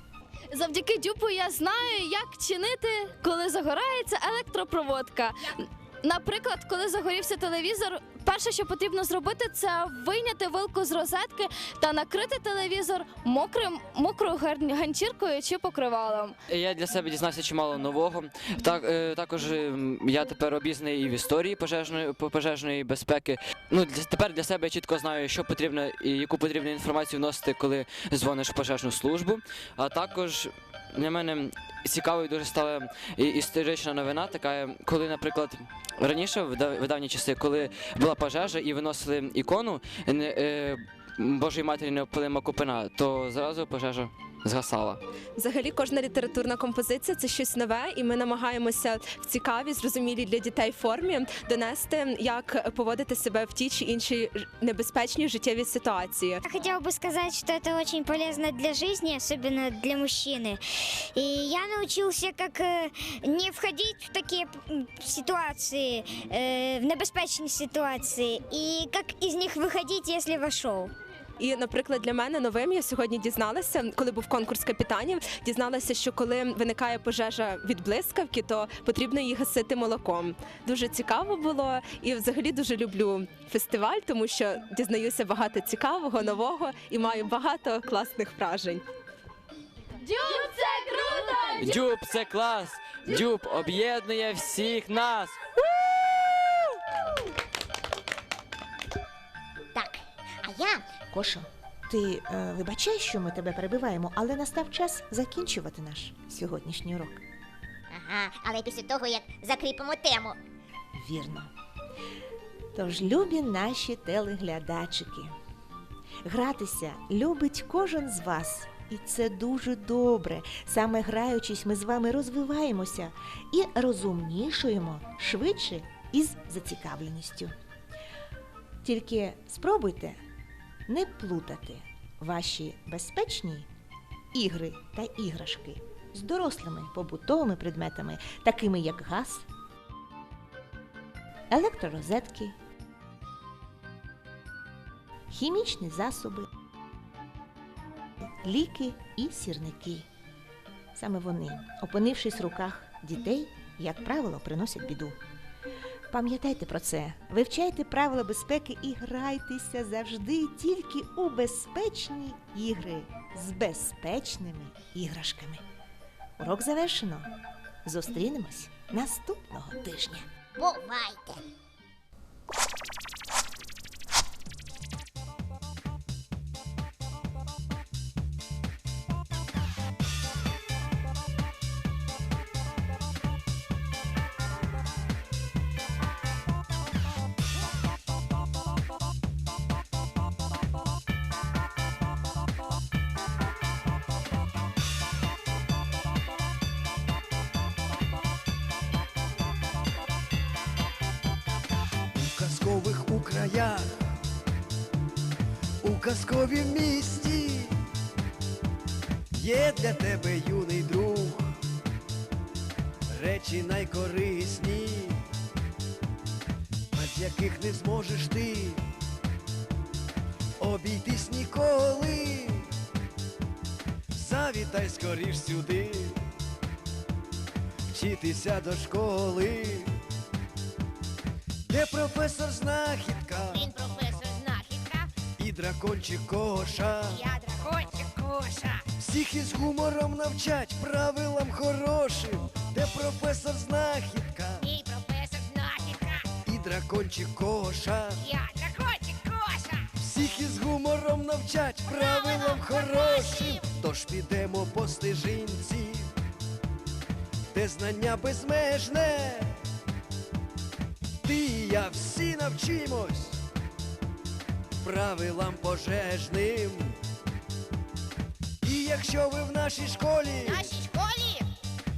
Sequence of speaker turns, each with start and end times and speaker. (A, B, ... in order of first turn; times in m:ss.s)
0:00.5-0:16.4 A
0:16.5-0:45.0 B
0:45.4-0:56.4 C
0:56.4-1:00.6 D
1:01.1-1:10.9 D
1:11.4-1:28.9 C
1:30.0-1:31.8 A
1:31.6-1:35.4 B
1:39.7-1:40.9 E
1:41.1-1:47.2 F
1:47.9-1:50.4 E
1:50.9-1:51.5 F
1:52.7-1:55.3 F
1:56.2-2:07.5 F
2:08.8-2:10.2 F
2:10.9-2:13.7 F
2:14.3-2:19.4 F
2:21.5-2:22.6 F
2:25.3-2:26.5 F
2:28.4-2:30.1 F
2:30.9-2:35.2 F
2:36.1-2:45.6 F
2:46.4-2:47.3 F
2:47.8-2:50.2 F
2:50.6-2:51.4 E
3:22.1-3:24.1 G
3:25.8-3:27.7 G
3:29.3-3:31.5 G
3:33.1-3:35.2 G
3:36.9-3:38.8 G
3:40.6-3:42.6 G
3:44.1-3:46.2 G
3:47.9-3:49.9 G
3:51.6-3:53.8 G
3:53.5-3:55.1 E
3:55.3-3:57.2 G
3:57.0-3:58.8 E
3:59.0-4:04.6 G
4:04.6-4:06.3 E
4:06.4-4:08.2 G
4:08.2-4:09.8 E
4:10.0-4:16.1 G
4:17.5-4:19.5 G
4:21.2-4:23.4 G
4:24.8-4:27.0 G
4:28.6-4:30.8 G
4:30.8-4:31.4 E